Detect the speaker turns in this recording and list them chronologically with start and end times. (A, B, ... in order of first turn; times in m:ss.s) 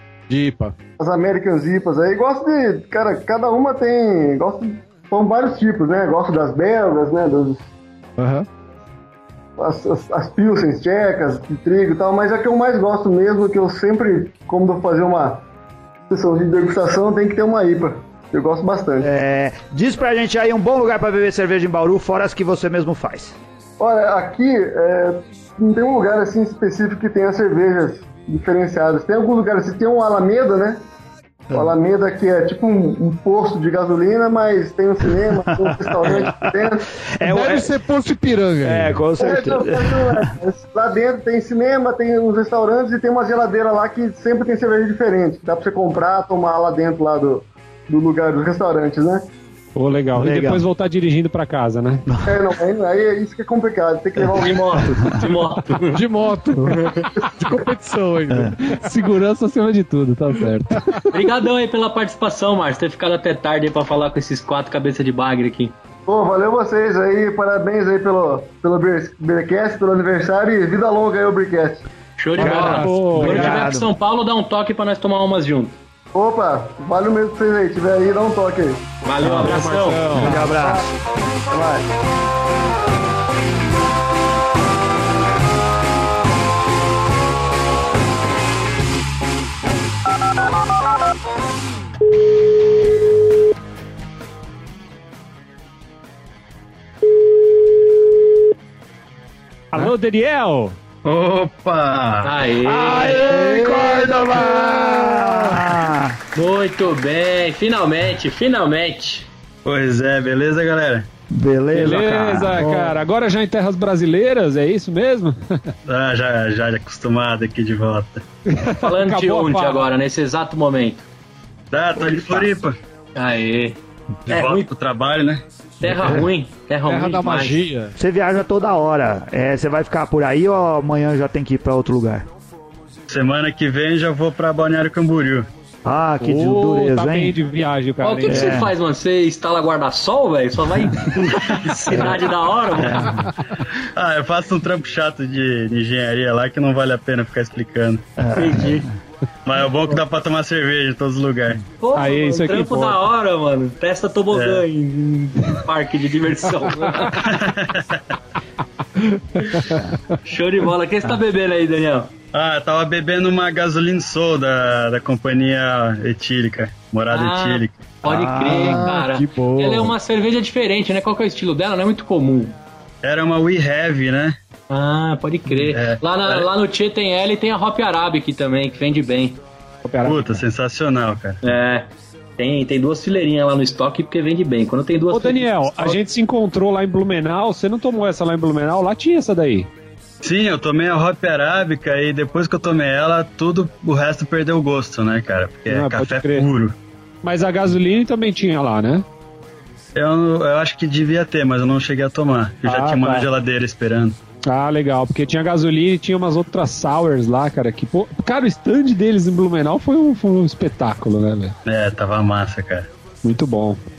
0:00.3-0:00.7 A
0:01.0-0:07.7 B
0:08.2-0:08.5 A
0:09.6-0:15.4 B
0:16.1-0:19.1 B
0:19.0-0:23.4 C
0:23.8-0:30.8 B
0:31.5-0:36.9 B
0:35.3-0:37.7 C
0:37.2-0:39.0 A
0:38.6-0:40.2 C
0:39.2-0:49.2 B
0:49.8-0:52.0 D
0:50.1-0:50.6 C
0:52.1-0:52.5 C
0:52.2-0:55.0 B
0:54.3-0:56.0 E
0:55.9-0:58.7 A
0:58.3-0:58.6 C
0:58.7-1:01.0 D
1:01.1-1:05.7 E
1:06.1-1:11.8 B
1:12.2-1:15.8 E
1:12.4-1:13.6 D
1:12.4-1:13.9 C
1:16.1-1:18.9 B
1:19.0-1:20.0 E
1:19.2-1:20.5 D
1:20.1-1:20.8 C
1:21.5-1:21.8 B
1:39.7-1:40.8 D
1:41.0-1:42.3 F
1:42.2-1:43.3 E
1:42.6-1:46.2 C
1:43.2-1:45.6 A
1:46.3-1:49.3 E
1:49.6-1:51.1 F
1:51.3-1:52.6 C
1:51.7-1:55.7 D
1:52.6-1:53.0 A
1:55.8-1:58.2 F
1:58.5-1:59.8 D
1:58.8-2:01.1 E
2:01.7-2:02.7 F
2:02.0-2:02.5 C
2:03.2-2:04.7 E
2:04.3-2:05.4 F
2:05.8-2:07.6 E
2:06.8-2:07.9 A
2:08.0-2:12.3 C
2:13.1-2:15.5 F
2:15.8-2:17.4 C
2:16.2-2:18.6 D
2:18.0-2:23.1 E
2:18.2-2:18.7 C
2:21.2-2:21.5 F
2:22.8-2:23.3 C
2:23.9-2:28.1 F
2:28.2-2:28.9 C
2:28.3-2:28.9 E
2:29.4-2:31.6 F
2:31.8-2:37.2 E
2:31.9-2:33.0 D
2:34.3-2:34.6 F
2:37.2-2:38.0 F
2:39.1-2:39.8 A
2:40.2-2:42.1 E
2:42.3-2:47.9 F
2:47.1-2:52.6 E
2:48.0-2:48.8 C
2:48.4-2:49.9 A
2:53.0-2:54.3 F
2:54.7-2:59.4 E
2:55.6-2:56.5 F
2:59.8-3:00.4 D
3:00.0-3:01.4 F
3:01.4-3:06.0 E
3:05.1-3:09.7 D
3:10.2-3:16.7 F
3:15.7-3:16.5 D
3:17.2-3:19.0 D
3:19.9-3:24.2 F
3:22.6-3:23.3 D
3:24.4-3:31.5 D
3:31.6-3:32.9 F
3:33.2-3:33.8 D